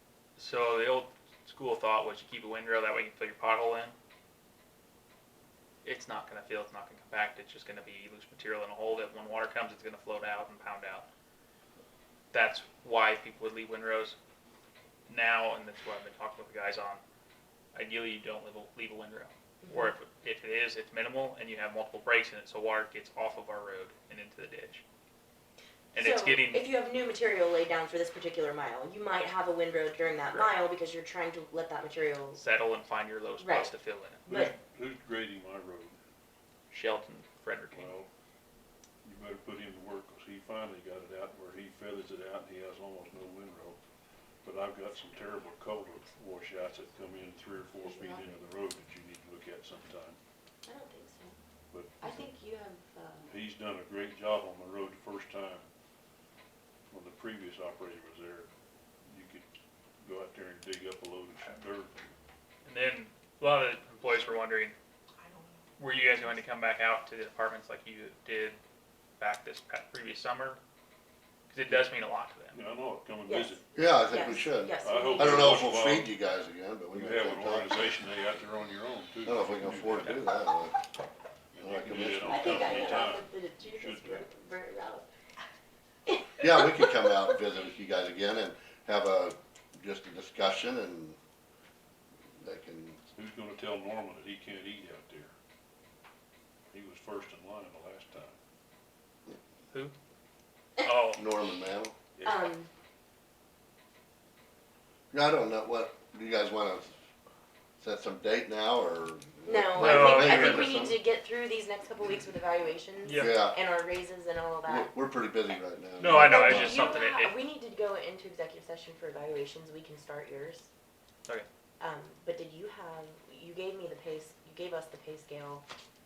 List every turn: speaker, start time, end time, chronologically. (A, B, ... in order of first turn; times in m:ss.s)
0:00.4-0:03.9 A
0:05.8-0:11.1 A
0:12.3-0:14.2 A
0:15.1-0:17.0 A
0:17.7-0:24.8 A
0:19.6-0:19.9 B
0:25.9-0:26.7 A
0:26.0-0:32.4 B
0:32.4-0:34.4 A
0:33.4-0:33.7 B
0:34.3-0:34.5 B
0:34.3-0:36.0 C
0:36.7-0:38.0 A
0:37.7-0:38.1 C
0:39.0-0:43.8 C
0:44.4-0:50.2 C
0:47.8-0:48.4 B
0:50.6-0:51.4 B
0:51.7-0:52.3 C
0:52.0-0:53.3 B
0:53.2-0:55.7 C
0:56.9-0:58.5 C
0:59.1-0:59.5 C
1:00.0-1:02.1 C
1:02.6-1:04.8 A
1:05.2-1:05.6 B
1:05.8-1:08.6 A
1:09.2-1:10.6 A
1:11.5-1:12.6 A
1:12.5-1:13.6 C
1:13.3-1:15.5 B
1:13.8-1:17.8 D
1:14.8-1:16.1 C
1:16.9-1:20.3 C
1:19.2-1:20.8 D
1:21.5-1:24.3 C
1:21.6-1:22.9 D
1:22.2-1:25.1 B
1:26.1-1:27.4 B
1:26.4-1:31.2 D
1:32.4-1:33.0 D
1:33.1-1:35.3 C
1:36.7-1:38.4 C
1:40.8-1:41.2 A
1:41.2-1:42.0 D
1:42.2-1:42.7 B
1:45.1-1:47.0 D
1:47.8-1:51.0 D
1:49.4-1:54.9 B
1:49.8-1:50.9 A
1:53.0-1:53.4 A
1:53.1-1:53.6 D
1:54.6-1:57.0 D
1:56.0-1:57.4 A
1:56.1-2:00.7 B
2:01.8-2:05.7 B